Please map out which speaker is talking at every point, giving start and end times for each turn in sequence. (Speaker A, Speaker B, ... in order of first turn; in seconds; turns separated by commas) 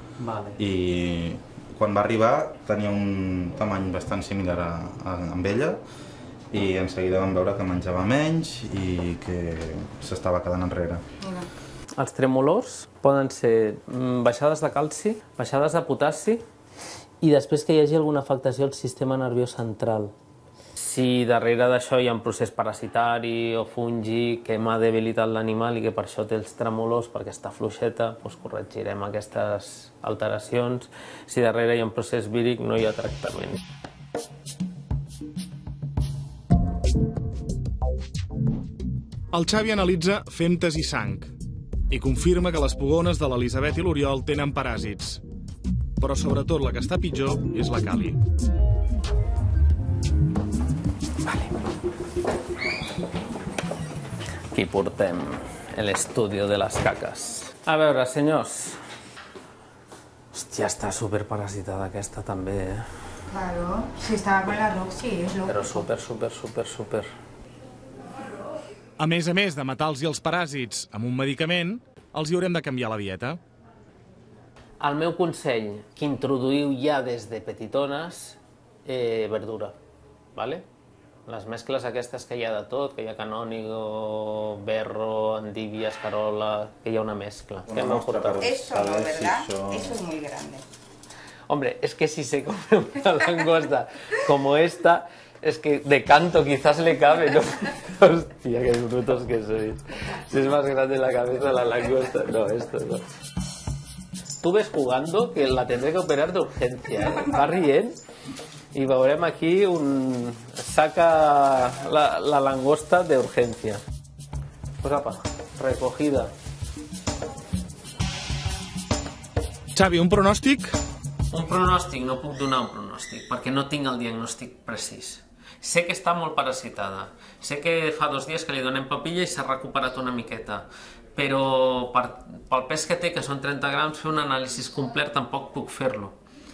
Speaker A: 0.2-0.6, Speaker B: 0.6-5.8, Speaker B: 6.5-11.0, Speaker C: 11.2-11.5, Speaker A: 12.0-16.4, Speaker A: 17.2-20.1, Speaker A: 20.8-33.6, Speaker D: 39.3-41.3, Speaker D: 41.9-45.2, Speaker D: 46.0-48.2, Speaker A: 51.2-51.5, Speaker A: 54.5-58.8, Speaker A: 60.3-62.9, Speaker C: 63.3-65.9, Speaker A: 65.5-67.1, Speaker D: 69.0-73.4, Speaker A: 74.8-79.8, Speaker A: 80.3-80.7, Speaker A: 81.3-88.5, Speaker B: 87.7-90.0, Speaker C: 88.4-90.7, Speaker A: 91.5-103.0, Speaker A: 104.4-108.0, Speaker A: 108.7-113.8, Speaker A: 114.8-116.3, Speaker D: 119.8-120.8, Speaker A: 121.3-136.2